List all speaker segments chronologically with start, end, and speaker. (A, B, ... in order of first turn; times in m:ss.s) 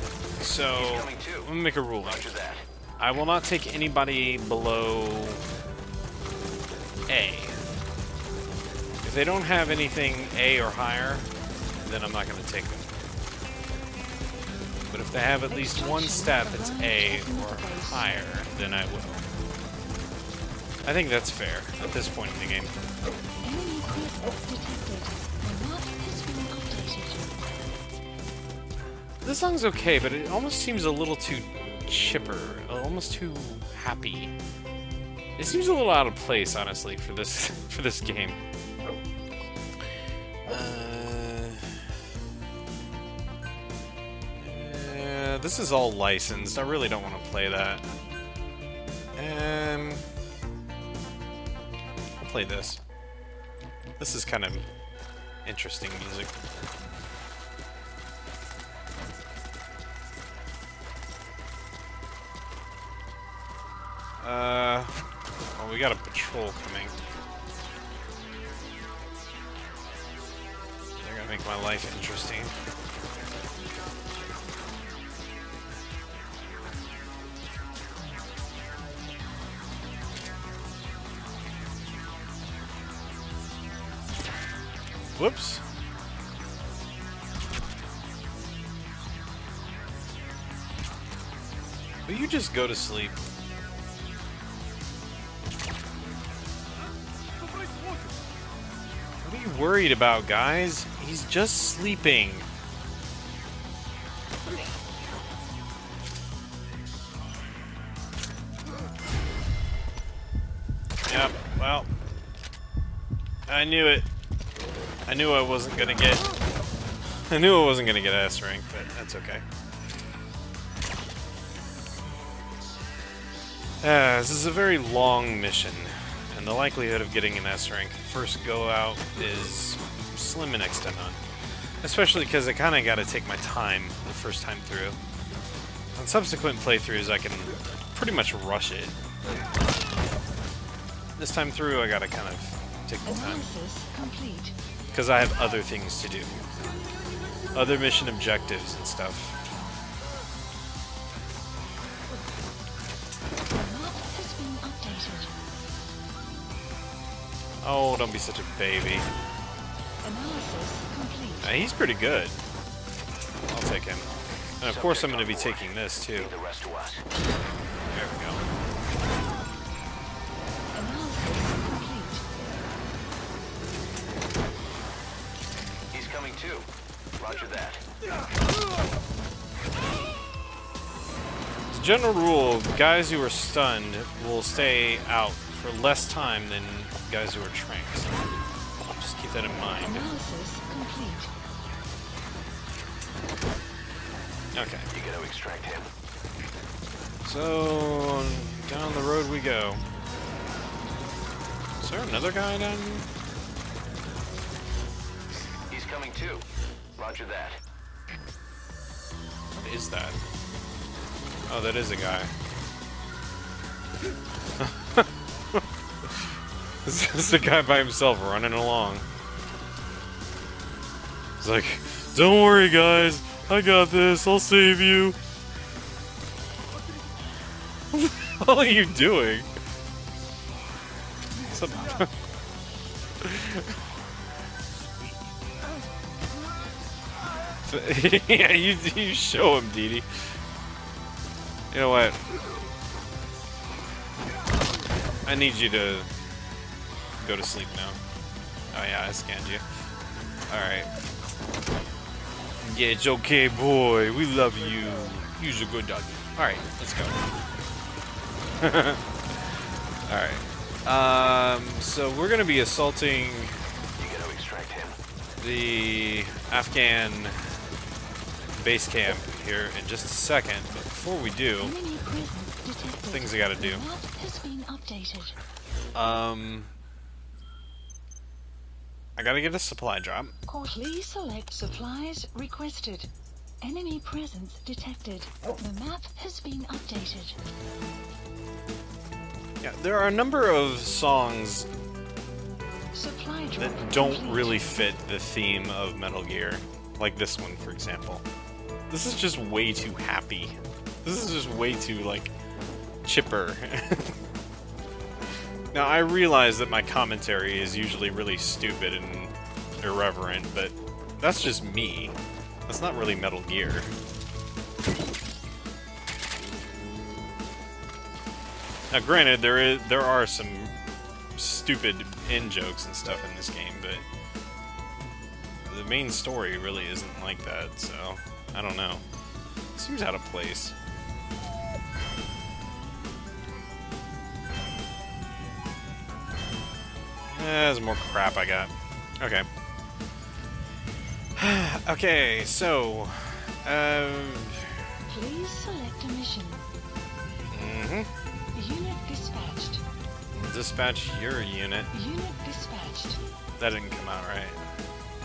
0:00.4-0:02.3 A
0:00.7-0:02.7 B
0:03.0-0:05.4 A
0:07.1-0:07.6 A
0:09.0-0:11.3 A
0:11.8-0:13.0 A
0:14.9-0:19.3 A
0:15.5-0:18.1 C
0:20.8-0:22.7 A
0:23.4-0:27.4 C
0:29.2-0:34.4 A
0:35.4-0:38.4 A
0:40.4-0:41.9 A
0:44.4-0:47.8 A
0:49.2-0:50.0 A
0:52.2-0:52.8 A
0:54.0-0:54.7 A
0:55.4-0:56.3 A
1:04.2-1:05.0 A
1:05.5-1:07.0 A
1:11.0-1:12.5 A
1:25.2-1:25.6 A
1:32.1-1:33.2 A
1:39.2-1:42.5 A
1:51.0-1:51.9 A
1:53.5-1:54.1 A
1:55.1-1:56.2 A
1:57.3-1:59.4 A
2:03.8-2:11.2 A
2:11.8-2:15.0 A
2:15.9-2:19.0 A
2:21.2-2:23.5 A
2:23.0-2:24.6 C
2:24.9-2:26.5 A
2:27.5-2:29.4 A
2:33.5-2:35.4 C
2:37.6-2:39.1 A
2:40.0-2:41.6 C
2:41.4-2:42.4 A
2:43.5-2:44.1 A
2:44.6-2:46.4 A
2:44.6-2:47.0 B
2:47.9-2:48.4 A
2:50.7-2:52.2 C
2:55.9-2:57.8 B
3:01.7-3:08.1 A
3:08.9-3:10.1 A
3:09.8-3:11.3 C
3:14.5-3:14.9 A
3:14.9-3:15.9 B
3:17.2-3:19.8 A
3:21.8-3:23.1 A
3:25.7-3:26.4 B
3:27.0-3:27.6 B
3:29.6-3:30.2 A
3:31.5-3:32.3 A
3:34.6-3:39.1 A
3:41.4-3:45.2 A
3:47.9-3:49.5 A
3:51.5-3:52.1 A
3:53.2-3:53.8 A
3:57.6-4:00.4 A
4:01.7-4:02.2 A
4:05.2-4:06.1 A
4:07.2-4:08.0 A
4:08.7-4:09.6 A
4:10.5-4:10.9 A
4:12.6-4:17.2 A
4:18.6-4:23.5 A
4:24.0-4:25.0 B
4:25.4-4:27.4 A
4:28.5-4:31.7 A
4:31.6-4:35.4 C
4:33.1-4:33.8 A
4:35.9-4:36.7 A
4:39.2-4:40.4 A
4:40.5-4:43.1 C
4:43.6-4:47.4 C
4:49.6-4:51.7 A
4:52.9-4:54.7 C
4:53.6-4:58.2 A
4:58.9-5:02.3 A
5:03.0-5:04.2 A
5:05.7-5:13.9 A
5:16.4-5:17.2 A
5:18.9-5:20.8 A
5:21.4-5:24.0 A
5:25.7-5:29.0 A
5:29.7-5:30.8 A
5:37.3-5:39.5 A
5:41.4-5:45.0 A
5:45.1-5:46.6 C
5:47.5-5:48.1 A
5:48.5-5:49.8 C
5:50.3-5:51.9 A
5:51.9-5:53.2 C
5:53.6-5:54.7 A